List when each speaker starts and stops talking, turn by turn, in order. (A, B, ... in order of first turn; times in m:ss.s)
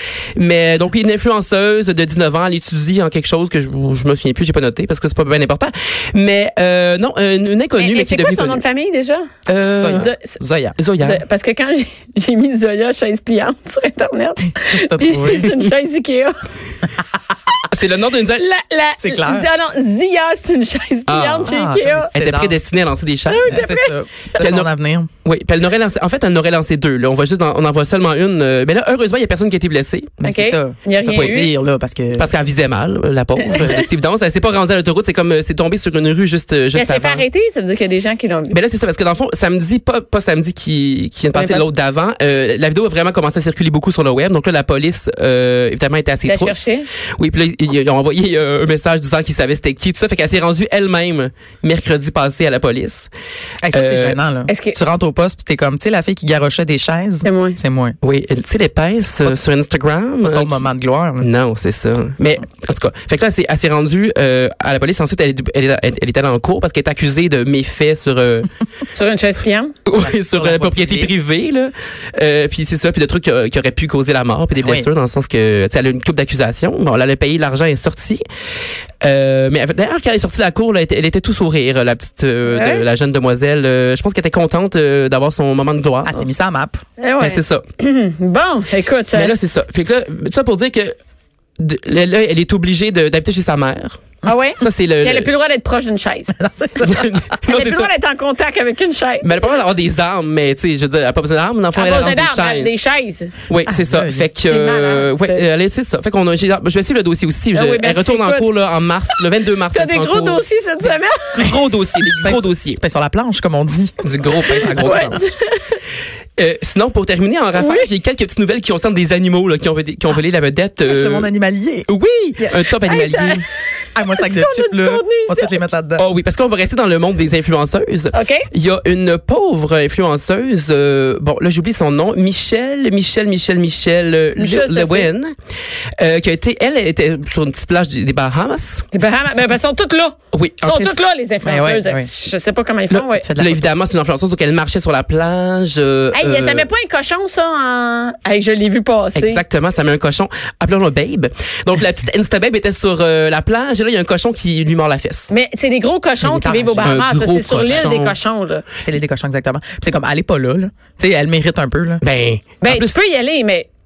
0:00.4-0:08.6 A
0:07.8-0:09.3 B
0:09.5-0:10.1 A
0:09.5-0:10.8 C
0:09.9-0:10.4 B
0:10.8-0:11.2 A
0:11.0-0:16.4 B
0:14.7-0:15.7 C
0:17.7-0:18.4 A
0:18.4-0:22.1 B
0:19.0-0:19.5 C
0:21.1-0:21.5 A
0:21.4-0:22.6 C
0:22.1-0:23.7 A
0:23.3-0:24.0 B
0:23.5-0:25.1 C
0:24.4-0:24.7 A
0:25.2-0:30.2 A
0:30.2-0:32.3 C
0:30.2-0:31.5 B
0:31.1-0:31.4 A
0:32.1-0:37.3 A
0:33.4-0:33.8 B
0:36.7-0:38.6 B
0:38.5-0:53.1 A
0:41.3-0:41.7 B
0:46.2-0:46.9 B
0:53.6-0:58.0 C
0:53.7-0:54.2 A
0:54.5-0:54.8 B
0:57.2-0:57.6 B
0:58.0-1:00.7 A
1:00.3-1:01.3 C
1:01.2-1:08.5 A
1:08.9-1:09.8 B
1:09.9-1:18.2 A
1:09.9-1:11.1 C
1:14.6-1:14.9 C
1:19.0-1:26.2 A
1:22.5-1:22.9 B
1:26.0-1:26.8 C
1:27.0-1:29.4 B
1:27.2-1:27.6 A
1:29.1-1:31.0 A
1:31.6-1:34.0 A
1:34.2-1:36.3 B
1:34.6-1:35.3 A
1:36.3-1:37.4 C
1:36.8-1:37.9 A
1:37.5-1:39.6 B
1:39.2-1:42.7 A
1:41.7-1:43.3 B
1:43.5-1:50.4 A
1:43.6-1:44.3 C
1:44.4-1:45.4 B
1:47.5-1:48.5 B
1:49.7-1:51.5 B
1:51.3-1:52.8 A
1:52.0-1:55.2 C
1:54.0-1:55.3 A
1:54.5-1:55.8 B
1:56.4-2:01.3 A
1:57.6-1:57.9 B
2:00.8-2:02.6 C
2:01.9-2:03.4 A
2:02.8-2:05.5 B
2:04.0-2:06.0 C
2:06.0-2:15.3 A
2:08.1-2:08.5 B
2:14.4-2:15.1 B
2:16.0-2:18.9 A
2:18.9-2:23.3 B
2:20.3-2:21.0 A
2:21.4-2:22.1 C
2:22.9-2:26.7 A
2:23.1-2:23.7 C
2:26.1-2:29.4 B
2:29.2-2:35.3 A
2:35.3-2:38.6 B
2:36.2-2:37.0 C
2:36.8-2:38.2 A
2:37.6-2:37.9 C
2:38.8-2:42.0 C
2:42.0-2:43.0 A
2:42.6-2:43.7 B